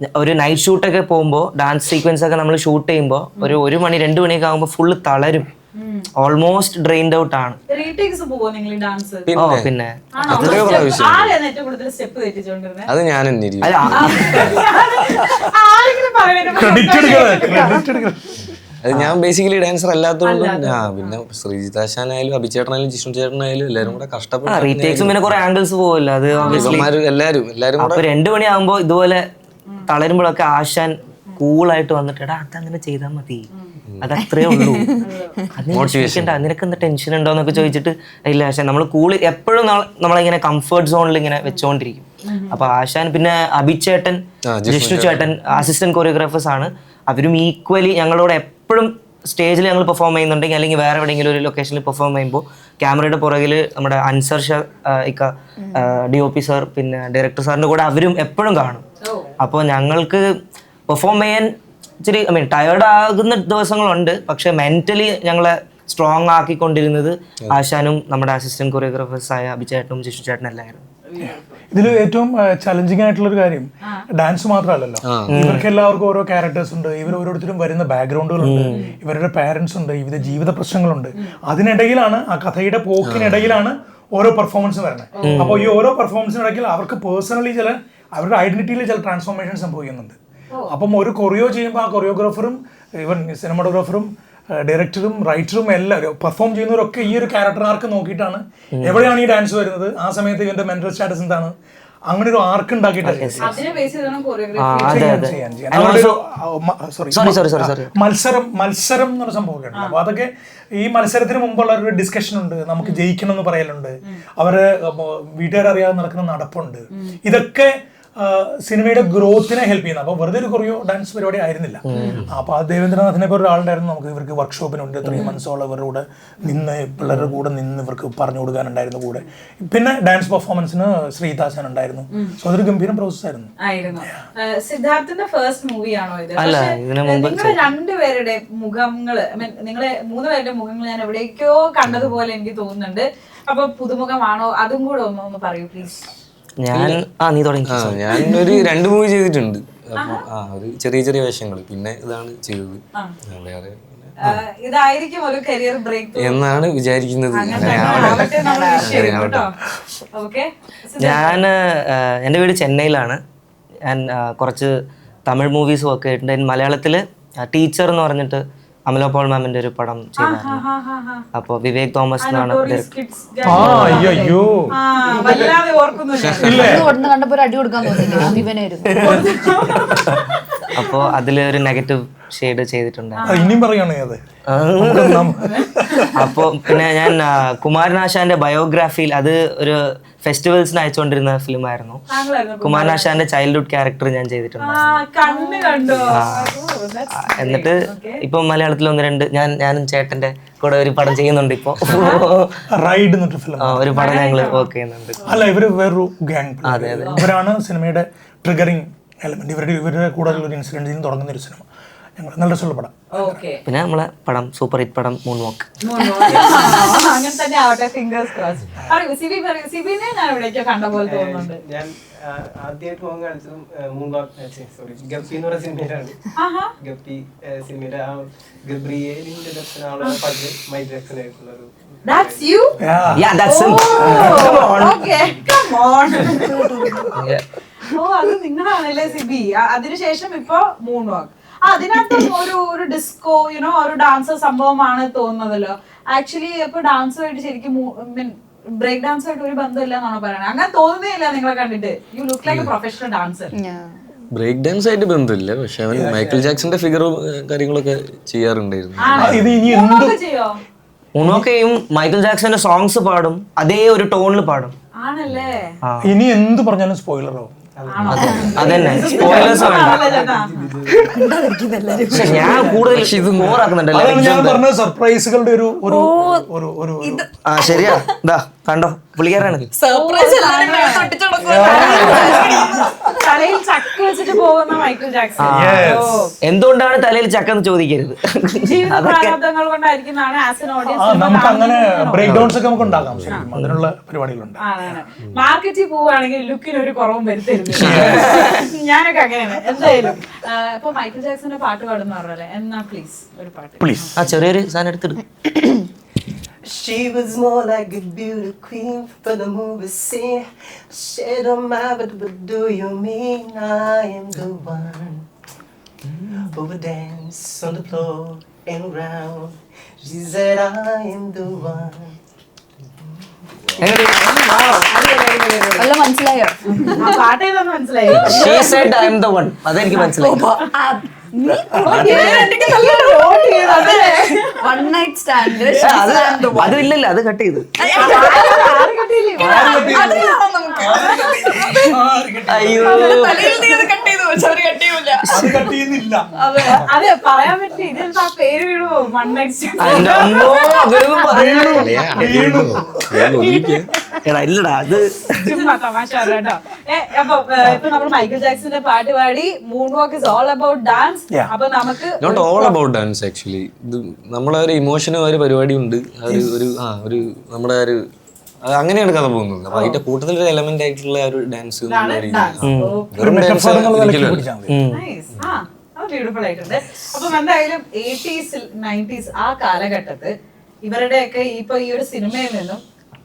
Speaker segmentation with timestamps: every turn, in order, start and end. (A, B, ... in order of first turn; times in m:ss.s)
0:00.2-0:05.5 A
0:05.8-0:06.1 B
0:06.2-0:07.6 A
0:07.7-0:09.3 B
0:09.3-0:09.7 C
0:09.3-0:11.0 A
0:10.2-0:12.9 B
0:10.5-0:11.4 C
0:12.9-0:14.5 C
0:13.6-0:14.4 A
0:13.9-0:17.8 B
0:14.2-0:15.4 D
0:16.5-0:18.4 D
0:16.8-0:17.8 E
0:18.8-0:25.4 C
0:18.9-0:19.2 A
0:20.2-0:21.2 B
0:24.5-0:26.9 A
0:26.3-0:26.8 B
0:26.5-0:28.1 C
0:27.8-0:29.2 A
0:29.9-0:33.5 A
0:34.0-0:34.9 A
0:34.2-0:35.5 E
0:35.0-0:35.4 B
0:35.6-0:58.8 A
0:35.7-0:36.4 C
0:42.3-0:42.7 B
0:44.5-0:45.3 C
0:55.6-0:55.9 E
0:59.0-0:59.3 B
0:59.4-1:00.2 A
1:00.9-1:01.5 A
1:02.0-1:10.8 A
1:11.1-1:11.6 B
1:11.2-1:30.2 D
1:15.0-1:15.4 C
1:15.3-1:15.7 A
1:18.4-1:18.8 A
1:18.7-1:19.0 B
1:23.0-1:23.6 C
1:25.2-1:25.8 B
1:25.2-1:25.6 A
1:30.7-1:41.5 D
1:38.7-1:39.1 A
1:42.1-1:43.6 D
1:43.0-1:43.5 A
1:43.4-1:45.4 B
1:44.6-1:46.2 A
1:44.9-2:14.2 D
1:47.1-1:47.9 A
2:01.9-2:02.2 A
2:01.9-2:02.3 B
2:07.0-2:07.4 A
2:13.6-2:26.1 B
2:16.4-2:17.6 A
2:26.6-2:28.5 A
2:26.7-2:27.0 C
2:27.6-2:34.2 C
2:28.3-2:28.6 B
2:30.0-2:30.2 B
2:34.2-2:36.5 B
2:36.2-2:38.2 C
2:37.3-2:39.5 B
2:37.7-2:39.0 E
2:38.8-2:39.5 C
2:40.1-2:41.4 B
2:41.0-2:43.2 A
2:43.9-2:44.7 A
2:45.3-2:50.6 A
2:50.2-2:51.3 B
2:51.3-2:52.9 A
2:52.2-2:56.9 B
2:53.4-2:55.3 D
2:53.5-2:54.0 A
2:56.4-2:56.9 D
2:56.5-2:59.8 E
2:59.0-3:00.4 B
2:59.8-3:03.3 A
3:03.2-3:03.7 B
3:03.2-3:04.2 D
3:04.5-3:05.3 A
3:04.8-3:07.0 D
3:05.4-3:06.2 B
3:06.2-3:12.0 A
3:12.1-3:13.2 B
3:12.6-3:15.0 A
3:14.6-3:18.2 B
3:15.3-3:15.9 E
3:16.0-3:16.6 A
3:17.1-3:22.6 A
3:21.8-3:22.2 B
3:22.8-3:23.9 D
3:23.6-3:25.3 A
3:23.9-3:24.7 B
3:25.2-3:31.6 D
3:26.7-3:27.2 A
3:27.1-3:27.3 B
3:32.2-3:33.4 D
3:33.2-3:33.6 B
3:33.7-3:35.7 A
3:35.8-3:41.6 B
3:36.2-3:36.9 E
3:41.0-3:46.2 F
3:46.4-3:46.7 B
3:46.8-3:53.0 F
3:52.1-3:52.8 B
3:52.8-3:53.2 D
3:53.1-3:55.1 A
3:53.4-3:56.7 B
3:54.1-3:54.4 D
3:56.3-3:57.1 E
3:57.2-3:57.4 A
3:57.9-4:13.5 B
4:12.4-4:12.7 C
4:13.5-4:13.9 E
4:14.3-4:19.6 C
4:15.9-4:17.0 F
4:19.0-4:20.6 B
4:19.2-4:20.2 D
4:21.2-4:24.7 A
4:21.2-4:21.5 D
4:25.0-4:25.8 B
4:25.8-4:26.1 A
4:26.0-4:27.5 D
4:27.8-4:31.2 F
4:27.9-4:30.5 B
4:28.1-4:30.0 A
4:28.1-4:29.6 E
4:30.9-4:32.8 E
4:32.1-4:37.2 D
4:32.1-4:34.6 A
4:32.3-4:33.1 F
4:33.1-4:33.6 C
4:35.9-4:36.4 E
4:37.0-4:38.2 E
4:37.4-4:39.6 A
4:39.7-4:44.0 E
4:39.9-4:46.3 B
4:41.5-4:42.8 D
4:45.4-4:49.4 A
4:45.5-4:46.2 D
4:48.6-4:52.6 B
4:51.0-4:54.7 D
4:52.2-4:53.4 C
4:53.6-4:53.8 A
4:54.6-5:04.3 B
4:57.8-4:58.7 A
4:57.8-4:58.3 D
5:03.8-5:04.1 D
5:04.2-5:05.2 A
5:06.6-5:15.2 F
5:16.2-5:22.2 F
5:23.8-5:24.9 A
5:24.8-5:25.9 B
5:25.8-5:27.2 E
5:26.8-5:28.9 B
5:28.1-5:28.9 E
5:28.2-5:30.4 A
5:29.9-5:36.8 E
5:31.9-5:32.6 A
5:32.0-5:34.8 B
5:35.8-5:37.8 A
5:37.8-5:38.9 E
5:38.0-5:41.2 B
5:39.4-5:42.0 E
5:39.4-5:43.0 D
5:42.5-5:43.5 A
5:42.8-5:45.7 E
5:45.2-5:45.6 A
5:45.3-5:46.9 D
5:46.4-5:46.8 E
5:46.9-5:52.3 B
5:49.8-5:51.6 A
5:51.3-5:53.3 D
5:51.8-5:53.9 C
5:54.2-5:55.6 A
5:55.4-6:02.8 B
6:02.2-6:08.0 C
6:06.3-6:06.6 D
6:08.6-6:14.4 C
6:09.7-6:10.0 B
6:11.9-6:13.1 B
6:12.6-6:13.0 A
6:13.2-6:14.7 D
6:14.7-6:15.0 A
6:14.9-6:20.3 B
6:20.8-6:22.8 B